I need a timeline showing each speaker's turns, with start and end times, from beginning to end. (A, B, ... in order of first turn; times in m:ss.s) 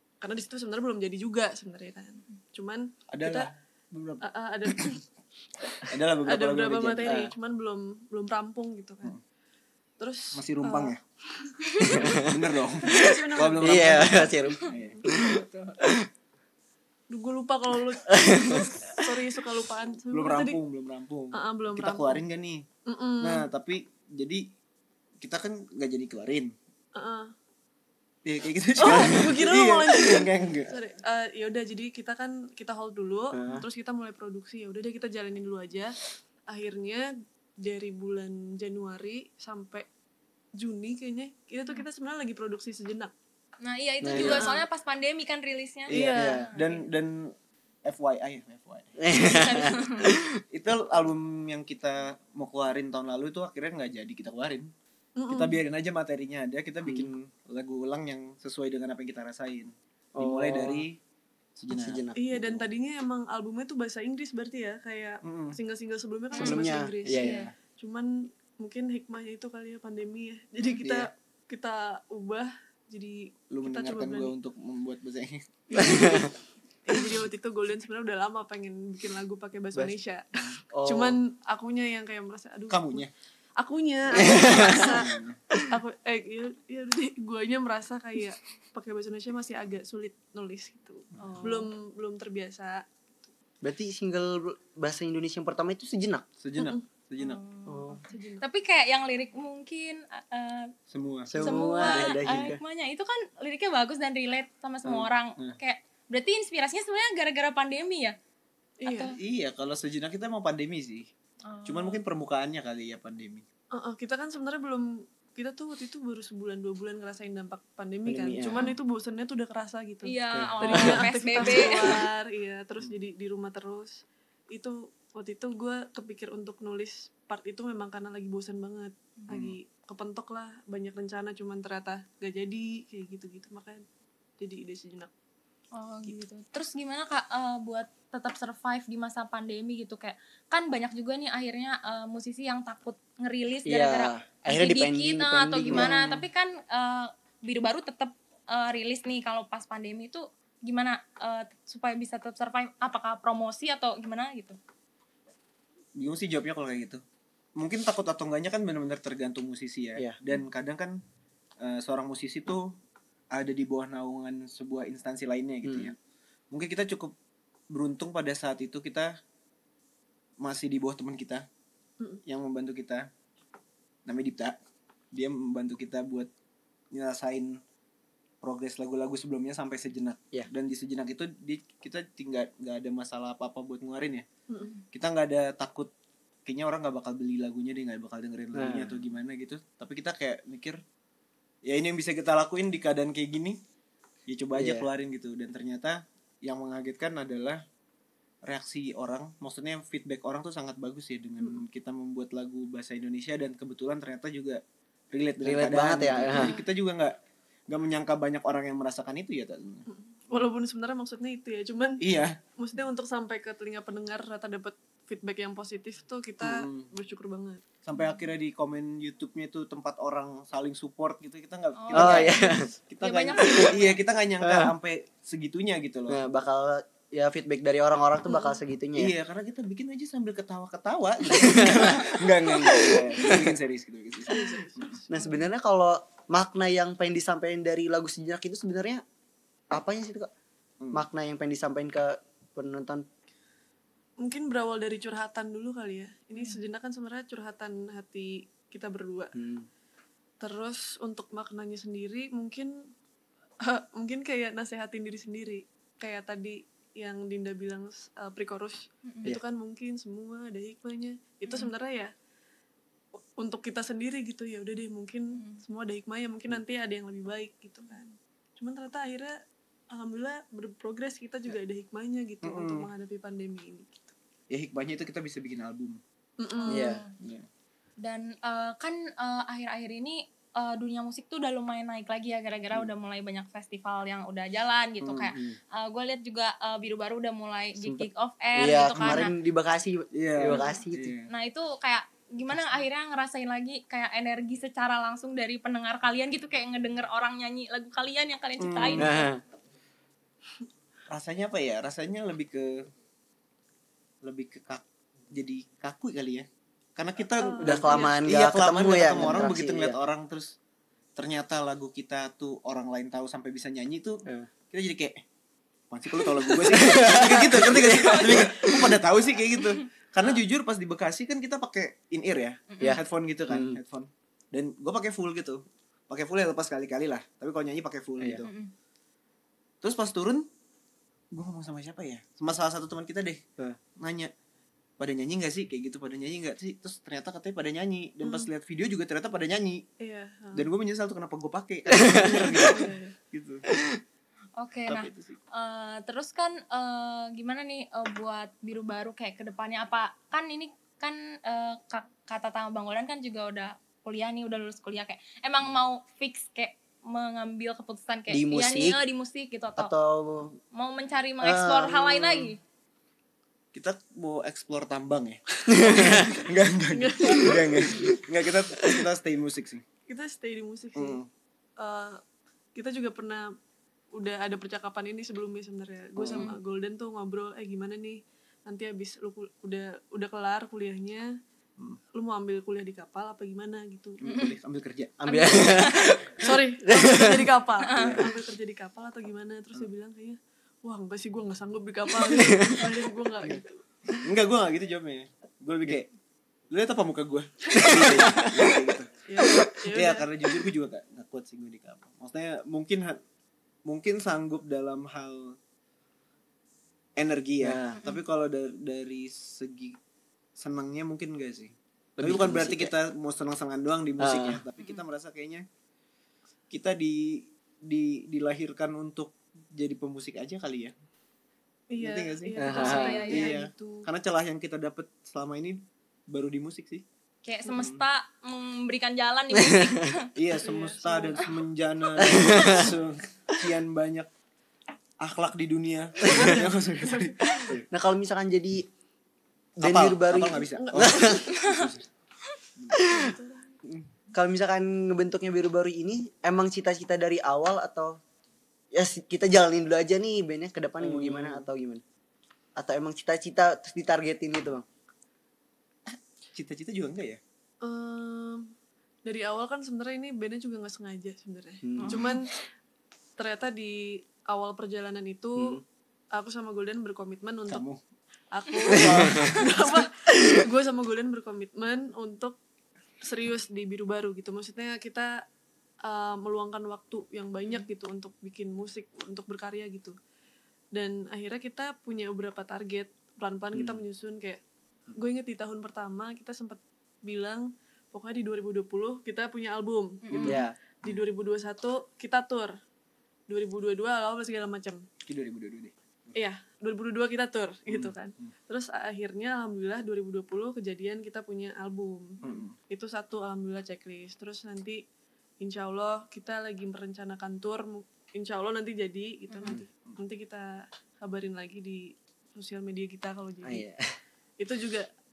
0:00.2-0:03.5 A
0:03.1-0:04.9 B
0:04.2-0:05.0 A
0:05.8-0:07.2 B
0:06.2-0:09.1 A
0:07.0-0:07.3 C
0:10.0-0:12.3 A
0:10.3-0:11.0 B
0:11.9-0:12.3 C
0:12.0-0:15.1 B
0:12.8-0:14.3 A
0:12.9-0:16.1 C
0:17.1-0:20.6 A
0:18.1-0:18.9 C
0:20.1-0:22.6 B
0:21.3-0:22.2 A
0:22.9-0:23.5 A
0:23.2-0:24.4 B
0:25.2-0:26.5 B
0:27.0-0:27.3 A
0:28.2-0:30.8 B
0:28.8-0:36.0 A
0:33.3-0:33.6 C
0:36.5-0:39.9 A
0:40.6-0:43.1 A
0:43.6-0:46.9 D
0:44.0-0:44.5 C
0:44.2-0:44.6 A
0:45.9-0:49.0 B
0:45.9-0:46.5 A
0:45.9-0:46.5 C
0:49.0-0:50.4 C
0:49.1-0:50.1 D
0:50.5-0:54.7 B
0:55.2-0:55.6 A
0:55.3-1:01.0 B
0:56.8-0:57.1 C
1:00.2-1:00.8 C
1:01.6-1:02.0 B
1:01.7-1:02.6 C
1:02.2-1:14.3 A
1:05.2-1:05.6 B
1:06.4-1:07.5 C
1:06.4-1:07.5 D
1:07.1-1:07.4 B
1:13.5-1:15.9 B
1:15.7-1:16.3 A
1:15.8-1:16.3 C
1:16.8-1:20.3 A
1:20.7-1:21.2 C
1:20.8-1:23.1 A
1:22.7-1:23.1 B
1:23.6-1:32.9 A
1:24.1-1:25.7 C
1:24.5-1:25.4 B
1:31.2-1:31.7 D
1:33.6-1:36.2 C
1:36.4-1:37.4 B
1:36.6-1:36.8 A
1:37.2-1:40.7 D
1:37.7-1:38.0 C
1:38.0-1:38.4 A
1:40.9-1:42.5 B
1:41.3-1:42.6 C
1:41.4-1:48.2 D
1:44.9-1:45.6 B
1:48.8-1:49.2 A
1:48.8-1:49.2 D
1:49.2-1:51.1 B
1:51.5-1:52.0 D
1:51.7-1:53.4 B
1:53.7-2:13.9 A
1:58.0-1:58.7 C
2:00.0-2:02.0 D
2:00.3-2:01.1 C
2:09.3-2:09.6 B
2:14.4-2:15.1 A
2:15.7-2:34.6 D
2:23.7-2:26.0 C
2:25.7-2:26.2 B
2:36.0-2:37.0 B
2:37.6-2:41.0 B
2:41.6-2:42.8 B
2:43.3-2:46.0 B
2:45.6-2:45.9 C
2:46.5-2:47.1 B
2:47.7-2:49.1 B
2:50.4-2:51.5 B
2:52.3-2:53.1 B
2:54.1-2:54.6 B
2:55.1-2:56.3 B
2:56.9-2:57.6 B
2:58.4-3:04.3 B
3:04.5-3:04.8 A
3:04.9-3:05.9 B
3:06.5-3:10.8 B
3:08.5-3:09.0 C
3:11.7-3:13.6 B
3:14.3-3:17.6 B
3:14.6-3:14.9 C
3:18.4-3:27.2 B
3:25.4-3:26.6 C
3:26.3-3:26.6 A
3:27.7-3:29.9 B
3:29.9-3:32.0 A
3:32.0-3:32.4 B
3:32.6-3:37.6 A
3:36.4-3:36.9 B
3:37.8-3:46.2 B
3:41.8-3:44.0 D
3:41.9-3:42.7 C
3:44.4-3:44.7 C
3:46.1-3:49.1 C
3:49.0-3:55.0 B
3:51.3-3:53.6 C
3:54.3-3:55.4 A
3:55.1-3:59.0 C
3:59.7-4:00.3 C
4:00.9-4:03.1 C
4:04.2-4:09.3 A
4:09.4-4:09.7 C
4:10.4-4:12.9 A
4:13.6-4:22.1 A
4:19.1-4:19.3 D
4:21.5-4:21.7 D
4:23.4-4:29.4 A
4:25.4-4:25.6 D
4:29.9-4:34.1 A
4:32.4-4:32.9 B
4:34.5-4:36.0 B
4:36.4-4:37.0 A
4:36.6-4:37.1 D
4:36.7-4:37.0 C
4:37.2-4:37.5 B
4:38.0-4:49.4 D
4:45.0-4:45.3 B
4:45.3-4:45.6 C
4:47.8-4:51.1 C
4:50.1-4:51.3 B
4:51.3-4:59.3 D
4:58.6-4:59.2 B
4:59.0-4:59.4 C
5:01.1-5:02.9 B
5:04.2-5:10.6 B
5:07.4-5:08.2 A
5:07.6-5:10.0 C
5:11.2-5:15.2 B
5:15.9-5:28.5 B
5:16.7-5:18.9 C
5:22.7-5:23.0 D
5:22.8-5:23.8 C
5:28.2-5:28.5 C
5:28.4-5:28.7 D
5:29.8-5:30.5 B
5:31.3-5:33.4 B
5:34.0-5:34.3 B
5:35.0-5:39.9 B
5:38.2-5:38.5 A
5:40.0-5:40.7 A
5:40.5-5:43.7 B
5:41.9-5:42.6 C
5:42.3-5:43.1 A
5:43.7-5:44.0 C
5:44.6-5:59.9 D
5:44.9-5:45.4 B
5:58.3-5:59.0 C
5:59.8-6:00.6 C
6:00.7-6:02.6 D
6:01.4-6:02.1 C
6:02.1-6:02.5 B
6:03.7-6:09.8 B
6:05.7-6:06.4 C
6:06.9-6:08.1 A
6:10.1-6:11.2 A
6:11.0-6:11.3 B
6:11.8-6:12.2 A
6:12.8-6:13.6 A
6:14.1-6:21.4 A
6:16.2-6:16.5 C
6:16.3-6:16.6 D
6:22.1-6:24.2 A
6:24.2-6:25.2 B
6:24.3-6:24.6 D
6:25.2-6:27.5 C
6:25.3-6:26.2 D
6:26.4-6:33.8 A
6:27.8-6:28.2 D
6:28.0-6:28.3 B
6:32.3-6:32.9 C
6:34.2-6:36.1 B
6:36.7-6:39.1 B
6:37.8-6:38.8 C
6:39.3-6:40.3 A
6:39.9-6:43.2 B
6:43.9-6:45.6 B
6:47.2-6:50.0 B
6:47.6-6:48.0 C
6:50.6-6:55.6 B
6:52.2-6:52.9 C
6:54.2-6:54.6 C
6:56.7-7:00.9 B
7:01.9-7:04.1 A
7:02.0-7:07.0 B
7:02.6-7:03.3 C
7:02.7-7:03.6 D
7:07.4-7:10.3 D
7:07.7-7:08.0 B
7:09.5-7:10.0 C
7:10.4-7:14.3 B
7:10.6-7:11.5 A
7:12.2-7:12.9 C
7:15.2-7:17.8 B
7:16.3-7:17.8 A
7:17.9-7:18.9 C
7:19.8-7:21.5 C
7:19.8-7:22.1 B
7:20.7-7:21.5 A
7:21.5-7:21.9 D
7:22.9-7:23.3 C
7:23.1-7:23.7 A
7:24.3-7:28.2 C
7:28.9-7:32.0 C
7:31.0-7:31.7 B
7:32.8-7:34.8 C
7:36.5-7:37.4 B
7:37.8-7:38.7 A
7:39.2-7:42.5 A
7:41.8-7:42.3 C
7:42.0-7:42.4 D
7:43.4-7:47.8 A
7:45.6-7:45.8 C
7:47.7-7:48.0 B
7:48.5-7:52.6 A
7:48.9-7:49.7 B
7:48.9-7:49.5 C
7:53.2-7:55.5 A
7:56.0-8:00.2 A
8:00.9-8:04.6 A
8:03.7-8:04.0 C
8:05.1-8:12.8 A
8:10.2-8:10.6 D
8:10.3-8:11.2 B
8:10.4-8:10.8 C
8:13.5-8:15.1 A
8:15.2-8:16.4 B
8:16.4-8:25.0 A
8:17.9-8:18.5 B
8:22.4-8:22.8 B
8:25.6-8:33.8 A
8:29.5-8:29.8 D
8:33.6-8:34.2 C
8:34.6-8:35.1 A